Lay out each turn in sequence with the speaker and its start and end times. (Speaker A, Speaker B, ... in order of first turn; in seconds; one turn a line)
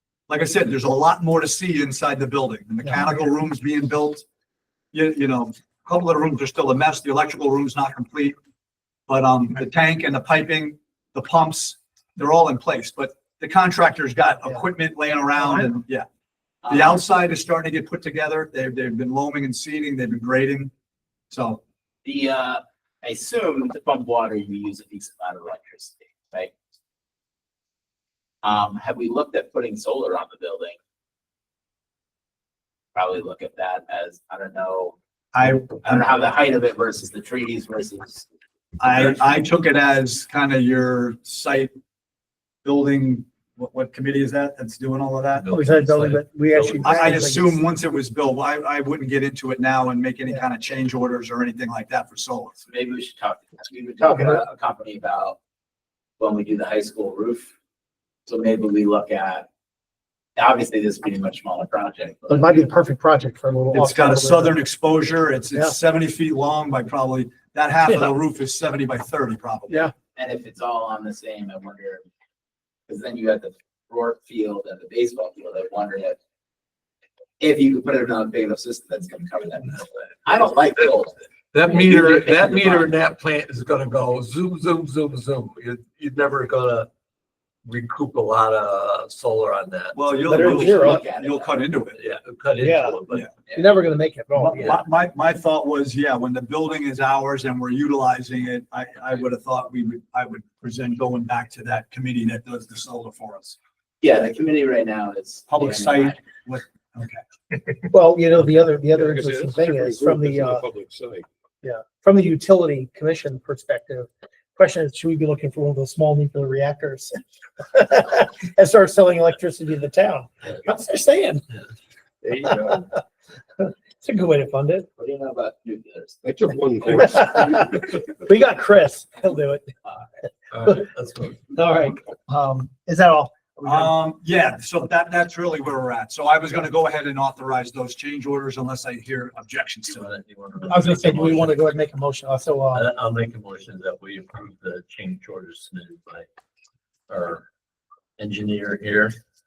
Speaker A: 0.3-4.2
Speaker B: 2.8-3.2
Speaker A: 4.9-8.4
Speaker A: 9.1-16.1
Speaker B: 15.4-15.7
Speaker C: 16.6-16.9
Speaker A: 16.7-20.7
Speaker A: 21.3-21.6
Speaker C: 22.1-26.6
Speaker C: 28.4-30.8
Speaker C: 33.0-35.0
Speaker A: 35.3-36.1
Speaker C: 35.7-38.3
Speaker A: 38.8-41.7
Speaker C: 38.9-39.1
Speaker A: 42.6-45.5
Speaker D: 45.3-47.4
Speaker B: 45.5-47.6
Speaker A: 46.8-52.6
Speaker C: 52.7-55.4
Speaker B: 54.0-54.4
Speaker C: 56.2-57.5
Speaker C: 58.3-59.5
Speaker C: 60.4-62.5
Speaker B: 62.3-64.6
Speaker A: 63.7-69.9
Speaker C: 70.2-72.1
Speaker C: 72.9-76.2
Speaker C: 77.4-82.9
Speaker D: 81.5-86.9
Speaker D: 87.7-91.0
Speaker A: 89.9-92.0
Speaker B: 90.2-91.1
Speaker C: 90.4-91.7
Speaker D: 92.0-93.3
Speaker B: 92.6-93.0
Speaker B: 93.5-94.8
Speaker A: 94.4-103.6
Speaker C: 104.0-106.2
Speaker A: 105.5-107.2
Speaker B: 107.9-110.7
Speaker E: 108.9-111.3
Speaker B: 111.6-121.5
Speaker E: 122.2-122.9
Speaker B: 122.5-122.9
Speaker B: 123.6-124.9
Speaker C: 125.0-126.2
Speaker E: 126.2-128.0
Speaker B: 127.0-130.8
Speaker D: 130.5-131.5
Speaker B: 131.5-133.9
Speaker A: 133.7-140.1
Speaker D: 139.9-141.6
Speaker B: 140.7-142.9
Speaker D: 142.7-146.3
Speaker D: 147.1-147.5
Speaker D: 148.2-149.2